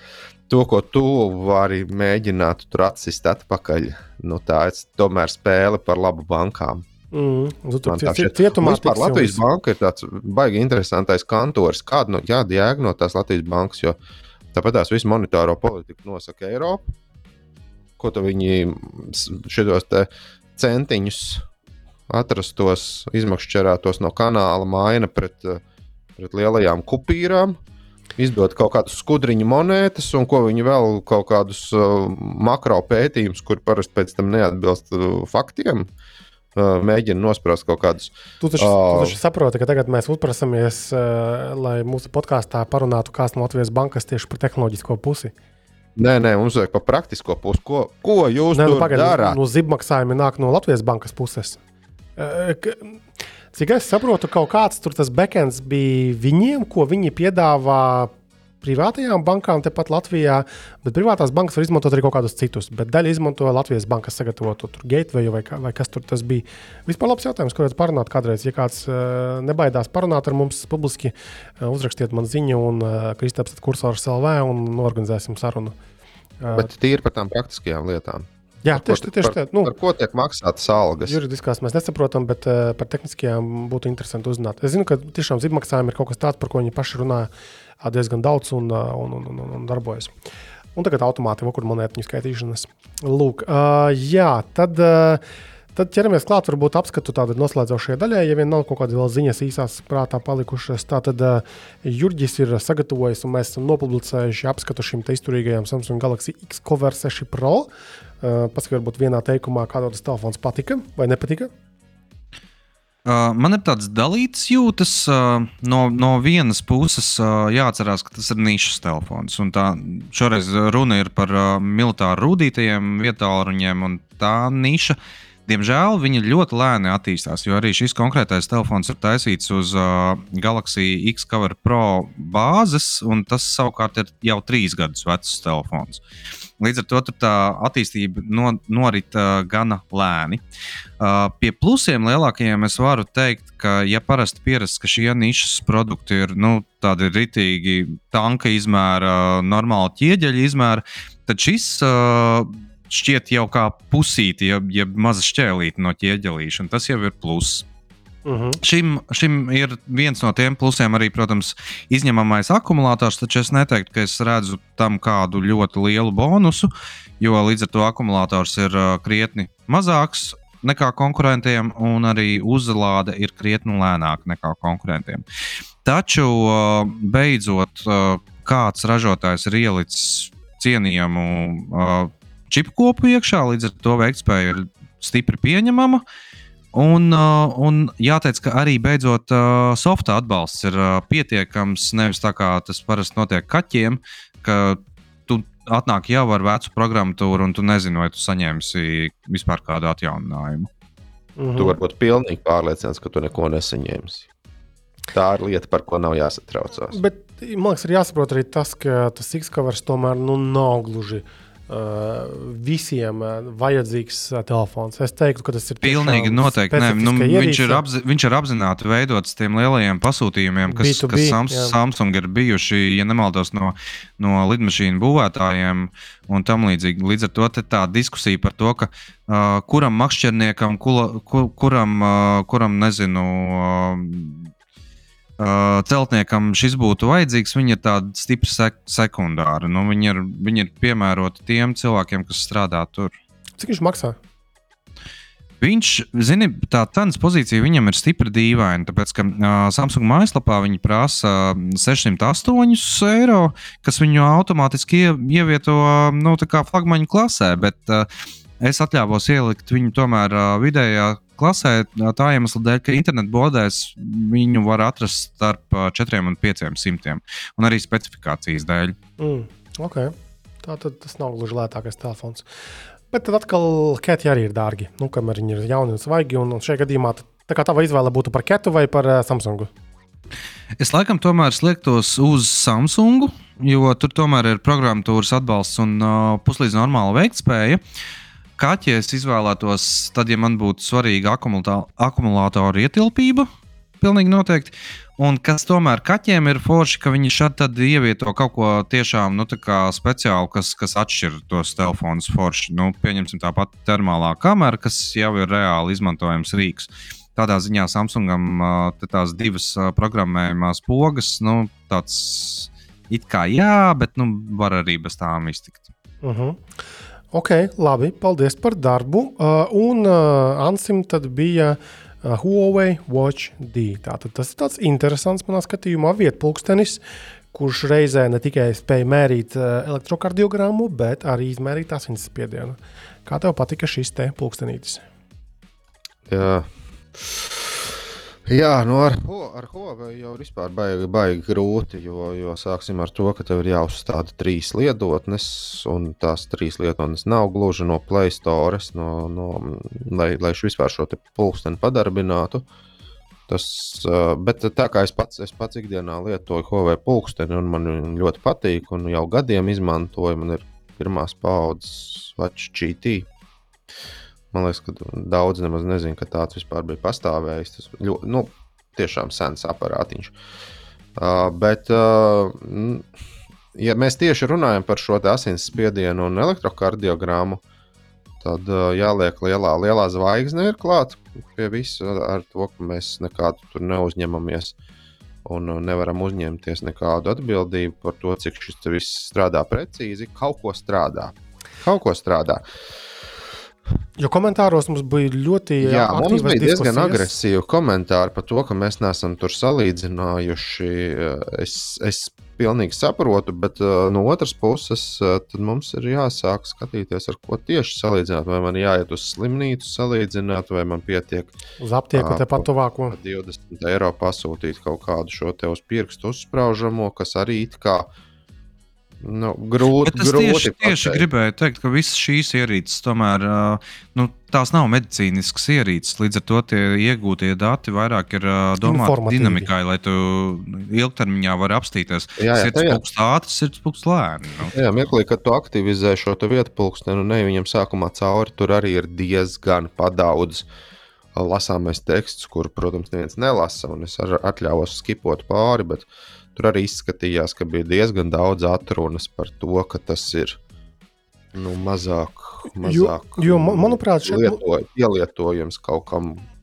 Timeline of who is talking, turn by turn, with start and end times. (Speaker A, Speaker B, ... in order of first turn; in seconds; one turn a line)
Speaker A: 0.5-6.8
Speaker B: 7.1-9.4
Speaker A: 7.8-13.9
Speaker A: 14.5-16.8
Speaker A: 18.0-21.4
Speaker A: 22.1-25.6
Speaker A: 26.2-27.6
Speaker A: 28.2-35.9
Speaker A: 36.5-39.1
Speaker B: 38.4-45.3
Speaker A: 46.0-49.4
Speaker B: 48.5-51.6
Speaker B: 52.2-53.0
Speaker B: 53.5-75.8
Speaker B: 76.4-76.7
Speaker A: 76.5-81.2
Speaker B: 78.6-79.7
Speaker B: 81.0-87.3
Speaker B: 87.8-90.1
Speaker B: 90.7-95.2
Speaker B: 95.7-107.7
Speaker B: 108.2-111.5
Speaker C: 113.0-136.0
Speaker C: 136.6-140.4
Speaker C: 141.0-157.6
Speaker B: 158.2-158.6
Speaker C: 158.6-166.7
Speaker C: 167.2-175.2
Speaker C: 175.8-186.0
Speaker C: 186.7-200.7
Speaker B: 201.4-201.8
Speaker A: 201.6-204.3
Speaker A: 205.1-207.0
Speaker B: 206.9-217.8
Speaker C: 215.8-234.5
Speaker B: 220.7-221.7
Speaker C: 235.4-243.1
Speaker B: 243.6-244.2
Speaker C: 245.6-258.1
Speaker C: 258.6-268.9
Speaker B: 269.2-272.4
Speaker B: 273.1-279.7
Speaker C: 280.8-287.8
Speaker C: 288.6-293.5
Speaker C: 294.0-315.9
Speaker B: 316.2-316.6
Speaker B: 317.3-327.0
Speaker B: 327.5-335.0
Speaker A: 336.3-337.9
Speaker A: 338.4-352.6
Speaker A: 353.5-363.3
Speaker A: 364.5-370.3
Speaker A: 371.1-373.1
Speaker A: 373.7-377.6
Speaker A: 378.4-384.7
Speaker A: 385.4-392.6
Speaker B: 394.2-397.3
Speaker A: 395.8-411.5
Speaker B: 411.8-413.2
Speaker A: 412.1-418.1
Speaker A: 419.2-421.2
Speaker C: 420.0-434.7
Speaker B: 428.8-429.7
Speaker A: 432.4-433.0
Speaker A: 434.7-440.6
Speaker A: 441.3-450.6
Speaker A: 451.5-456.4
Speaker B: 452.8-454.6